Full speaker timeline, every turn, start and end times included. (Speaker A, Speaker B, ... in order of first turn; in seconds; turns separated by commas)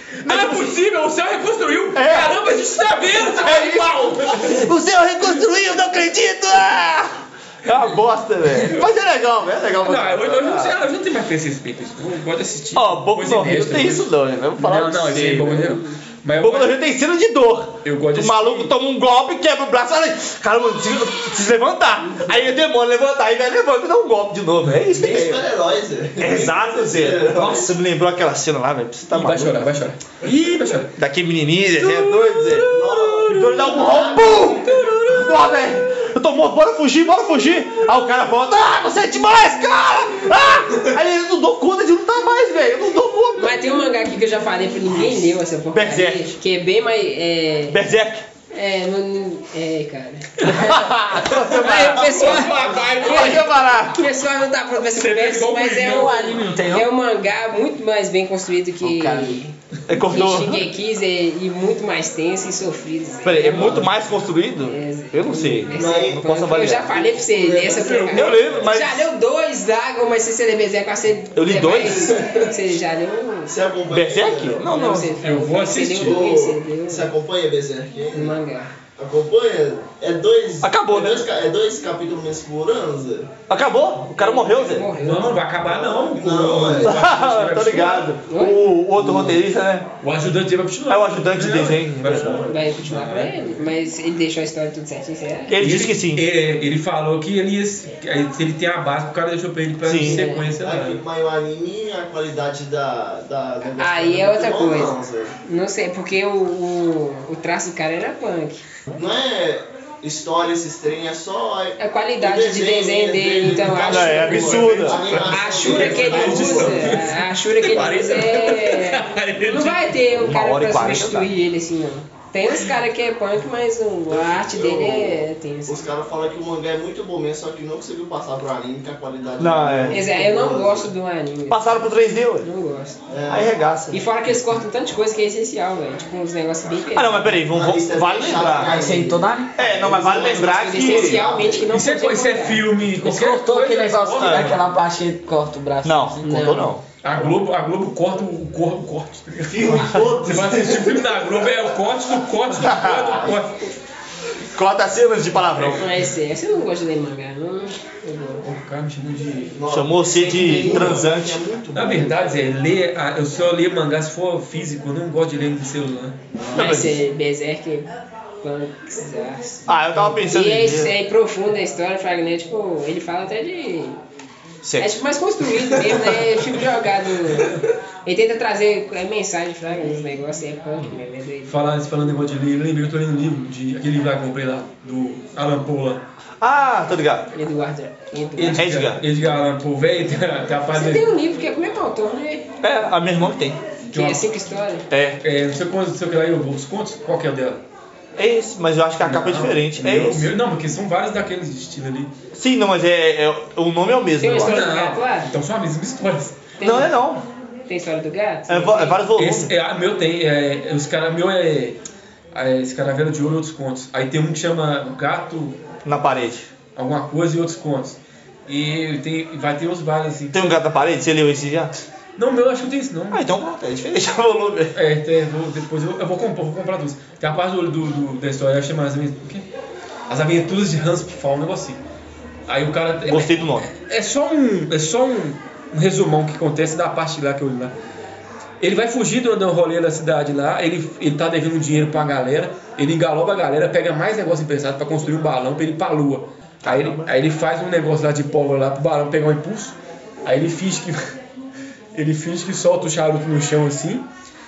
Speaker A: 0.2-4.7, Speaker B: 0.2-0.8, Speaker B: 1.9-2.4, Speaker B: 3.2-10.8, Speaker A: 8.5-8.9, Speaker A: 9.8-16.8, Speaker B: 12.8-15.8, Speaker B: 16.4-25.4, Speaker A: 17.8-18.7, Speaker C: 24.9-27.7, Speaker B: 26.2-29.7, Speaker A: 29.1-30.9, Speaker B: 31.0-32.7, Speaker A: 31.8-35.4, Speaker C: 32.7-34.7, Speaker B: 33.3-43.7, Speaker D: 43.4-47.8, Speaker B: 45.7-46.2, Speaker B: 47.7-48.3, Speaker D: 48.5-50.7, Speaker A: 50.4-50.7, Speaker B: 50.5-52.4, Speaker D: 51.4-63.9, Speaker A: 51.4-53.6, Speaker B: 53.0-54.0, Speaker A: 54.9-56.3, Speaker E: 55.9-56.9, Speaker E: 58.8-59.4, Speaker B: 59.9-60.7, Speaker B: 63.2-67.0, Speaker D: 64.6-73.5, Speaker C: 65.7-68.8, Speaker B: 68.1-69.1, Speaker B: 71.3-72.2, Speaker C: 72.0-72.5, Speaker C: 73.5-74.7, Speaker B: 73.9-75.2, Speaker D: 74.6-77.1, Speaker A: 75.2-76.2, Speaker C: 76.0-78.4, Speaker D: 78.1-78.7, Speaker C: 79.0-83.3, Speaker B: 80.6-81.3, Speaker B: 83.5-84.9, Speaker D: 84.2-85.4, Speaker A: 85.0-88.1, Speaker C: 85.6-87.0, Speaker B: 86.8-89.9, Speaker D: 88.3-88.6, Speaker A: 90.0-93.6, Speaker B: 90.9-92.4, Speaker C: 92.2-92.6, Speaker D: 92.5-95.6, Speaker B: 95.5-96.2, Speaker A: 95.6-101.0, Speaker B: 99.8-100.2, Speaker D: 100.0-100.5, Speaker C: 100.6-105.4, Speaker D: 103.8-104.9, Speaker D: 105.5-108.6, Speaker C: 108.9-117.0, Speaker D: 111.8-114.6, Speaker B: 113.8-115.1, Speaker A: 114.5-120.0, Speaker D: 115.3-125.8, Speaker B: 120.2-121.3, Speaker C: 124.1-130.9, Speaker B: 129.4-130.0, Speaker D: 129.9-131.7, Speaker B: 131.5-132.5, Speaker D: 132.4-133.0, Speaker C: 133.1-133.6, Speaker B: 133.3-134.0, Speaker D: 133.9-137.4, Speaker B: 136.9-138.8, Speaker C: 137.4-141.7, Speaker E: 138.6-139.5, Speaker B: 139.6-141.2, Speaker D: 140.1-142.7, Speaker A: 141.7-144.6, Speaker E: 143.0-146.7, Speaker B: 144.2-144.6, Speaker B: 145.8-146.8, Speaker A: 147.0-153.6, Speaker C: 149.5-151.0, Speaker B: 152.6-153.3, Speaker B: 154.5-155.9, Speaker A: 155.6-155.8, Speaker D: 155.8-158.4, Speaker A: 158.4-159.6, Speaker C: 159.6-162.4, Speaker B: 159.7-161.4, Speaker A: 160.2-161.0, Speaker A: 161.7-166.2, Speaker C: 166.4-167.0, Speaker B: 166.5-167.0, Speaker D: 166.5-169.6, Speaker B: 169.7-170.9, Speaker D: 170.2-174.0, Speaker B: 174.6-175.0, Speaker D: 174.8-181.7, Speaker A: 181.5-186.1, Speaker B: 186.4-187.3, Speaker D: 187.3-188.7, Speaker A: 188.4-191.1, Speaker B: 188.6-189.0, Speaker D: 190.7-192.5, Speaker B: 192.6-193.6, Speaker A: 193.9-194.2, Speaker D: 193.9-194.9, Speaker B: 194.9-195.2, Speaker A: 195.2-197.6, Speaker B: 198.2-200.3, Speaker A: 199.0-202.1, Speaker B: 202.3-204.7, Speaker D: 204.2-205.3, Speaker A: 204.4-206.5, Speaker D: 206.6-206.9, Speaker B: 206.6-207.2, Speaker D: 207.7-209.0, Speaker B: 208.5-209.5, Speaker A: 209.2-211.8, Speaker A: 212.3-215.6, Speaker B: 215.9-216.5, Speaker A: 216.8-220.6, Speaker B: 220.3-221.7, Speaker A: 222.2-223.3, Speaker B: 223.1-224.8, Speaker A: 224.8-229.5, Speaker A: 230.1-231.8, Speaker A: 232.5-237.7, Speaker B: 233.1-233.7, Speaker A: 238.6-251.0, Speaker B: 246.6-247.1, Speaker A: 251.9-254.1